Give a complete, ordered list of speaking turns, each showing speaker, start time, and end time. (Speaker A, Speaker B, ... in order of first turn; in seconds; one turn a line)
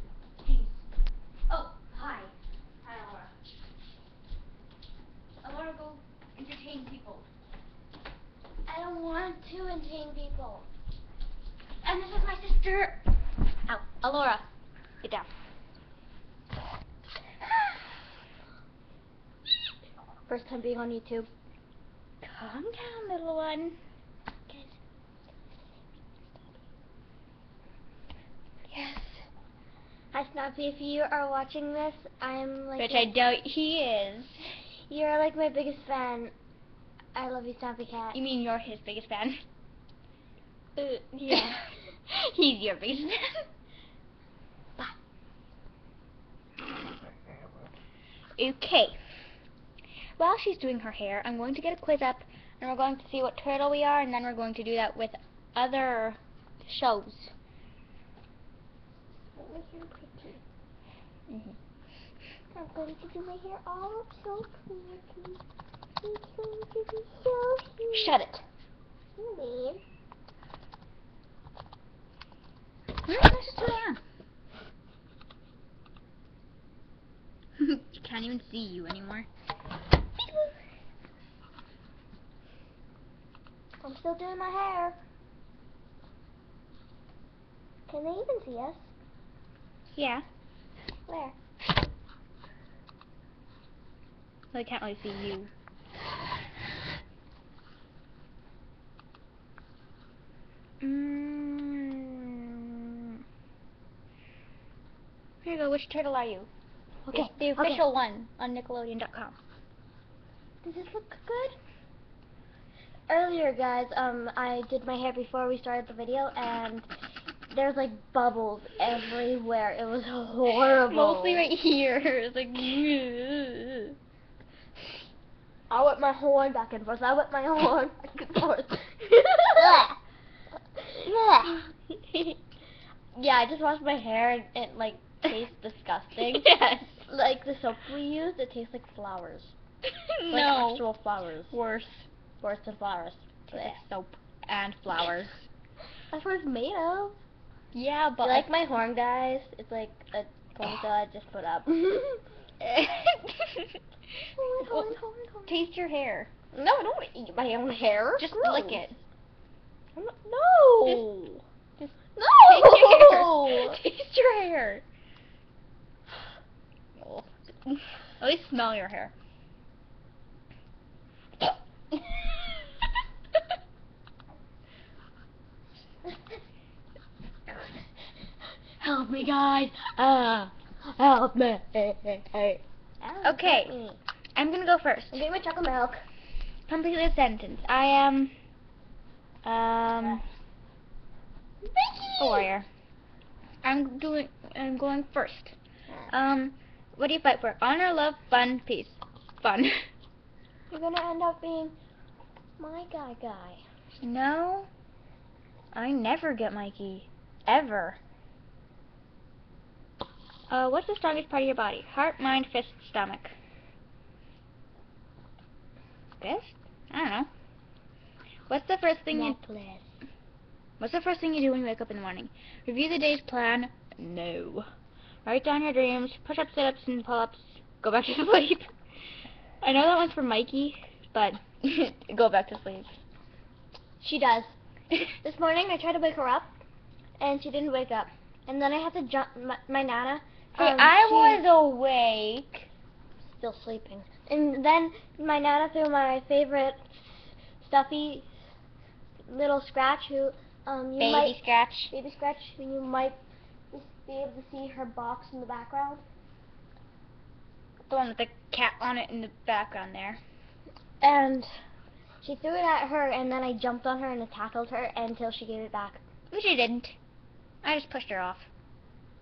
Speaker A: 0.4-0.8
Speaker A: 1.5-2.3
Speaker A: 2.8-3.3
Speaker A: 5.4-7.3
Speaker B: 8.7-10.7
Speaker A: 11.8-13.0
Speaker A: 13.7-14.5
Speaker B: 20.3-21.3
Speaker A: 22.2-23.8
Speaker A: 28.7-29.2
Speaker B: 30.1-33.1
Speaker A: 32.8-34.4
Speaker B: 34.9-36.3
Speaker B: 37.1-38.2
Speaker A: 38.1-39.4
Speaker A: 40.8-43.3
Speaker B: 41.2-41.6
Speaker A: 48.4-49.0
Speaker A: 50.2-57.3
Speaker B: 59.4-60.4
Speaker A: 61.3-61.6
Speaker B: 62.5-65.4
Speaker B: 66.0-68.2
Speaker A: 67.9-68.4
Speaker B: 69.2-69.8
Speaker A: 73.0-74.0
Speaker A: 77.6-79.3
Speaker B: 80.2-80.5
Speaker B: 83.8-85.0
Speaker B: 87.9-88.9
Speaker A: 89.9-90.2
Speaker B: 91.1-91.4
Speaker A: 94.5-95.5
Speaker A: 100.8-103.2
Speaker A: 105.4-106.5
Speaker B: 107.1-107.9
Speaker A: 107.1-109.4
Speaker B: 110.6-111.6
Speaker B: 113.1-116.9
Speaker B: 117.5-121.5
Speaker A: 120.9-124.0
Speaker B: 125.7-130.0
Speaker B: 130.8-131.6
Speaker A: 131.0-131.6
Speaker B: 133.2-139.5
Speaker A: 136.3-137.0
Speaker A: 139.9-140.8
Speaker B: 140.3-141.6
Speaker A: 141.5-142.1
Speaker B: 142.4-143.8
Speaker A: 143.5-145.4
Speaker B: 146.1-147.2
Speaker A: 147.7-148.5
Speaker B: 148.2-152.2
Speaker A: 152.6-153.7
Speaker B: 154.3-155.6
Speaker A: 154.6-154.9
Speaker A: 155.5-156.3
Speaker B: 156.5-158.9
Speaker A: 158.2-159.0
Speaker B: 160.0-161.1
Speaker A: 160.8-164.8
Speaker B: 162.2-163.8
Speaker A: 167.0-169.1
Speaker B: 177.5-177.8
Speaker B: 178.8-184.0
Speaker A: 183.2-183.7
Speaker A: 184.3-185.2
Speaker B: 185.1-186.0
Speaker A: 186.7-188.3
Speaker A: 189.4-190.2
Speaker B: 191.6-192.5
Speaker A: 192.2-192.7
Speaker A: 193.6-195.5
Speaker A: 196.1-199.9
Speaker B: 200.7-201.8
Speaker B: 202.6-203.6
Speaker A: 204.0-204.7
Speaker A: 205.7-208.0
Speaker A: 210.5-213.4
Speaker A: 216.2-217.3
Speaker A: 218.5-219.4
Speaker B: 219.1-219.9
Speaker A: 220.8-224.7
Speaker A: 225.2-228.7
Speaker A: 229.6-232.9
Speaker B: 234.0-234.5
Speaker B: 235.2-236.5
Speaker B: 237.2-241.5
Speaker A: 240.5-242.7
Speaker B: 243.2-248.3
Speaker B: 249.3-253.2
Speaker A: 251.0-251.9
Speaker B: 253.7-256.0
Speaker A: 257.9-260.2
Speaker B: 261.0-261.6
Speaker B: 262.2-266.0
Speaker A: 266.3-266.9
Speaker A: 267.6-268.5